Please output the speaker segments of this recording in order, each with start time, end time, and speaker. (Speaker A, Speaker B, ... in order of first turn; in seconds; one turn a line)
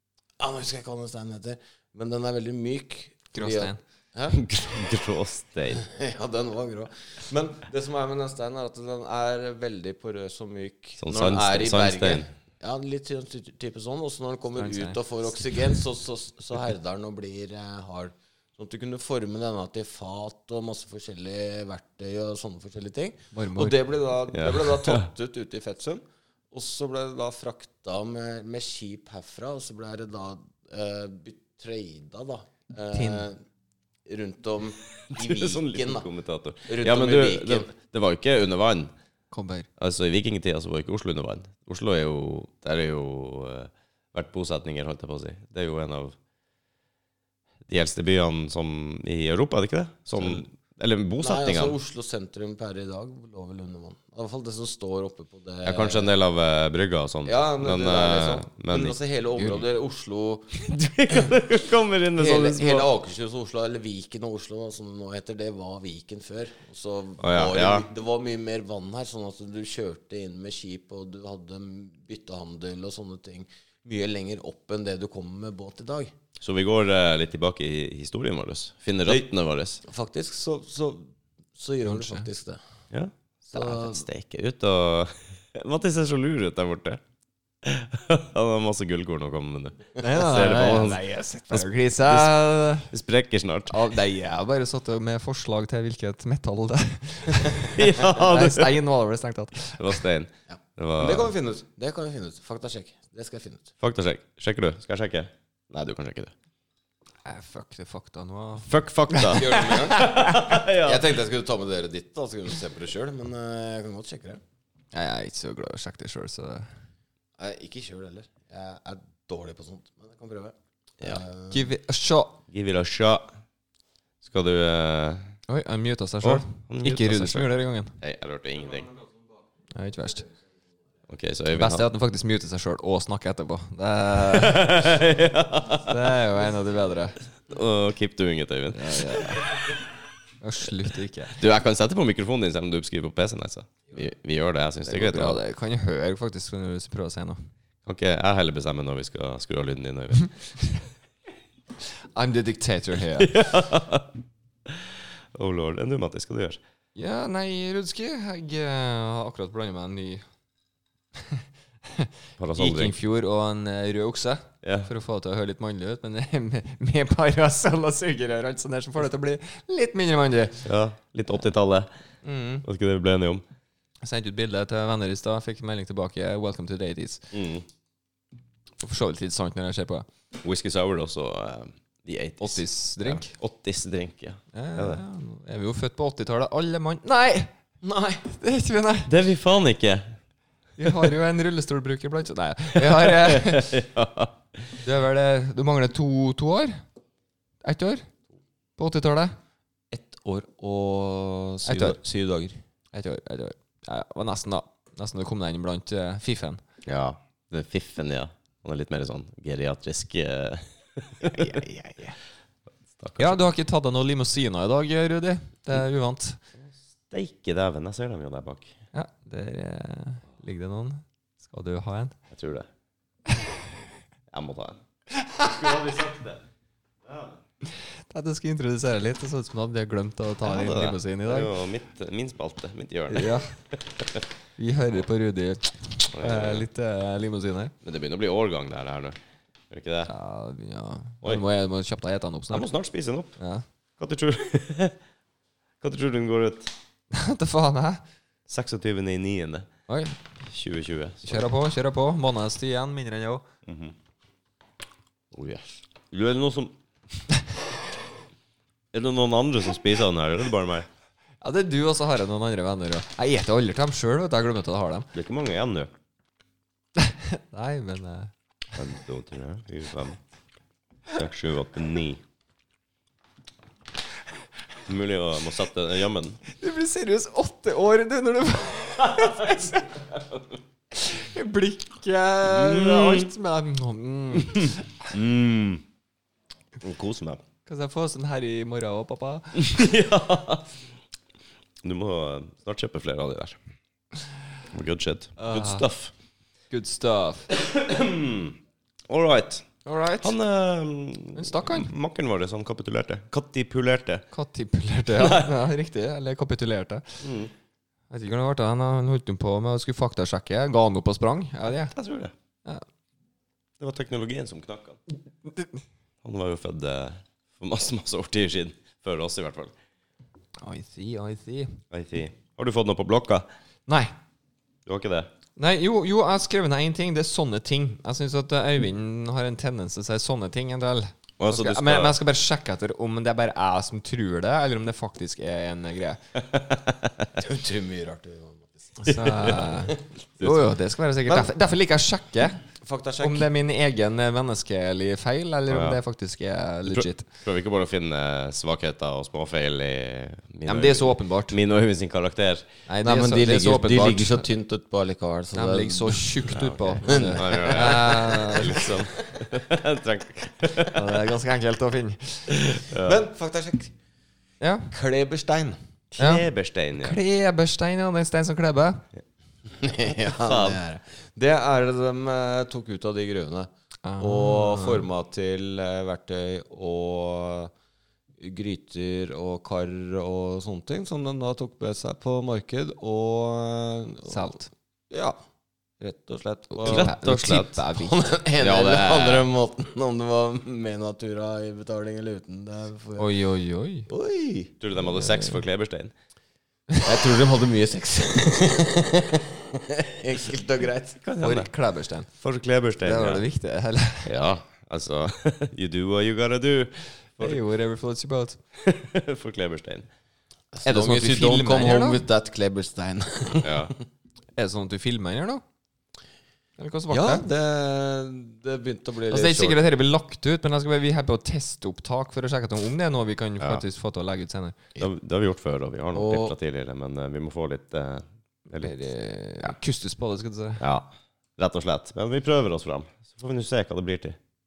Speaker A: 0.4-4.4
Speaker B: 3.3-3.8
Speaker C: 4.3-5.8
Speaker A: 5.7-33.4
Speaker C: 11.0-12.3
Speaker B: 14.6-15.0
Speaker B: 23.3-23.8
Speaker C: 24.3-25.1
Speaker B: 32.9-33.2
Speaker A: 34.0-36.1
Speaker C: 35.1-38.9
Speaker A: 36.7-37.7
Speaker B: 39.3-39.7
Speaker C: 39.8-46.1
Speaker C: 47.7-51.8
Speaker A: 51.2-56.1
Speaker C: 55.6-59.6
Speaker A: 57.2-60.6
Speaker C: 60.5-62.9
Speaker A: 62.1-76.1
Speaker C: 67.2-67.9
Speaker C: 76.4-79.8
Speaker A: 79.8-81.0
Speaker A: 81.5-82.6
Speaker B: 81.8-82.2
Speaker C: 82.9-87.0
Speaker A: 83.5-84.0
Speaker C: 87.6-93.8
Speaker B: 90.0-92.9
Speaker B: 93.7-100.0
Speaker C: 97.7-98.8
Speaker C: 99.8-101.3
Speaker A: 100.5-103.7
Speaker C: 103.8-106.3
Speaker B: 107.2-110.5
Speaker C: 108.6-111.1
Speaker A: 109.2-110.1
Speaker A: 110.7-114.4
Speaker B: 114.9-116.7
Speaker A: 117.4-121.6
Speaker B: 121.5-122.4
Speaker C: 122.5-123.3
Speaker C: 124.2-125.3
Speaker B: 125.5-127.9
Speaker C: 126.2-128.9
Speaker B: 129.8-130.2
Speaker C: 131.1-131.9
Speaker B: 131.5-134.8
Speaker C: 134.2-136.1
Speaker B: 135.8-137.2
Speaker C: 137.5-139.5
Speaker B: 138.7-139.5
Speaker B: 140.4-141.3
Speaker C: 141.3-145.4
Speaker B: 144.8-147.4
Speaker C: 147.8-150.7
Speaker B: 152.1-153.3
Speaker C: 153.2-154.1
Speaker C: 154.7-156.6
Speaker B: 156.9-160.2
Speaker B: 161.2-170.6
Speaker C: 162.4-162.9
Speaker C: 164.6-164.9
Speaker C: 170.6-171.9
Speaker B: 172.2-172.6
Speaker C: 172.6-173.4
Speaker B: 174.0-177.3
Speaker C: 177.3-177.6
Speaker B: 178.8-180.1
Speaker C: 180.4-185.0
Speaker B: 182.4-183.3
Speaker B: 184.5-189.1
Speaker C: 189.1-190.2
Speaker B: 190.8-193.8
Speaker C: 192.8-194.6
Speaker B: 194.8-196.8
Speaker B: 197.6-198.1
Speaker B: 198.8-199.3
Speaker A: 199.9-202.6
Speaker B: 201.7-202.0
Speaker B: 202.9-206.6
Speaker C: 206.8-211.6
Speaker B: 211.2-212.1
Speaker C: 212.9-213.4
Speaker B: 213.2-216.4
Speaker C: 217.1-218.7
Speaker B: 218.9-222.1
Speaker C: 222.3-222.7
Speaker C: 224.3-224.8
Speaker B: 225.2-225.7
Speaker C: 225.4-226.4
Speaker C: 227.0-227.4
Speaker B: 227.7-231.5
Speaker C: 230.4-234.2
Speaker B: 233.1-233.5
Speaker B: 234.6-237.7
Speaker C: 236.1-236.7
Speaker C: 237.8-239.2
Speaker C: 239.7-240.1
Speaker B: 240.1-242.7
Speaker C: 242.5-243.3
Speaker B: 243.4-243.6
Speaker C: 244.0-244.9
Speaker C: 245.8-246.7
Speaker B: 247.1-248.0
Speaker C: 248.5-249.7
Speaker B: 249.9-250.1
Speaker C: 250.4-251.4
Speaker B: 251.2-253.4
Speaker C: 253.7-253.9
Speaker C: 255.3-256.7
Speaker C: 258.9-260.9
Speaker B: 261.4-265.1
Speaker C: 265.1-265.9
Speaker B: 267.0-268.3
Speaker C: 268.7-270.2
Speaker C: 271.1-272.2
Speaker C: 274.9-276.4
Speaker B: 276.5-280.0
Speaker B: 280.9-285.1
Speaker C: 282.4-283.3
Speaker C: 284.4-285.8
Speaker C: 286.8-287.4
Speaker B: 287.6-289.8
Speaker C: 289.6-290.7
Speaker C: 291.8-293.6
Speaker C: 294.7-296.1
Speaker B: 295.4-295.9
Speaker B: 296.7-297.5
Speaker C: 297.5-298.6
Speaker C: 299.1-299.7
Speaker B: 299.8-300.3
Speaker C: 300.2-304.2
Speaker B: 301.3-301.9
Speaker B: 304.3-307.2
Speaker C: 305.1-305.6
Speaker C: 307.2-307.5
Speaker B: 308.1-311.9
Speaker C: 311.7-312.3
Speaker C: 313.8-315.0
Speaker C: 316.2-319.7
Speaker B: 320.6-321.8
Speaker C: 321.9-323.4
Speaker B: 323.9-324.1
Speaker C: 324.9-325.3
Speaker B: 325.6-336.2
Speaker C: 331.4-332.1
Speaker C: 336.3-337.3
Speaker A: 337.4-339.0
Speaker B: 339.0-342.6
Speaker C: 339.1-339.8
Speaker C: 340.4-340.7
Speaker A: 342.8-343.5
Speaker B: 343.2-347.3
Speaker C: 345.7-346.0
Speaker C: 346.9-352.6
Speaker B: 350.7-351.6
Speaker B: 352.9-354.4
Speaker A: 353.0-356.4
Speaker B: 355.5-358.9
Speaker C: 356.5-361.1
Speaker A: 357.0-359.3
Speaker B: 360.9-362.6
Speaker C: 362.5-363.2
Speaker A: 363.0-363.9
Speaker B: 364.6-364.9
Speaker A: 364.9-365.8
Speaker C: 366.1-367.2
Speaker B: 366.2-369.0
Speaker A: 369.8-373.7
Speaker C: 370.2-370.8
Speaker B: 374.0-375.0
Speaker A: 374.2-377.7
Speaker A: 378.4-384.5
Speaker B: 384.3-384.7
Speaker A: 385.1-385.4
Speaker A: 386.0-387.1
Speaker C: 386.8-387.8
Speaker B: 386.8-388.3
Speaker A: 387.9-393.3
Speaker C: 388.6-389.5
Speaker B: 393.2-394.1
Speaker A: 394.1-394.7
Speaker C: 394.8-396.1
Speaker B: 395.1-395.6
Speaker A: 397.0-401.2
Speaker C: 401.2-401.7
Speaker B: 401.4-402.3
Speaker C: 402.3-403.4
Speaker B: 403.0-404.3
Speaker C: 404.2-407.6
Speaker B: 407.4-408.6
Speaker C: 408.7-410.1
Speaker A: 410.7-413.9
Speaker B: 410.8-412.2
Speaker C: 413.6-413.9
Speaker B: 414.6-415.6
Speaker B: 416.8-417.4
Speaker A: 417.1-419.8
Speaker B: 419.3-424.8
Speaker C: 425.0-428.9
Speaker A: 426.1-426.5
Speaker B: 428.7-430.8
Speaker C: 430.8-434.4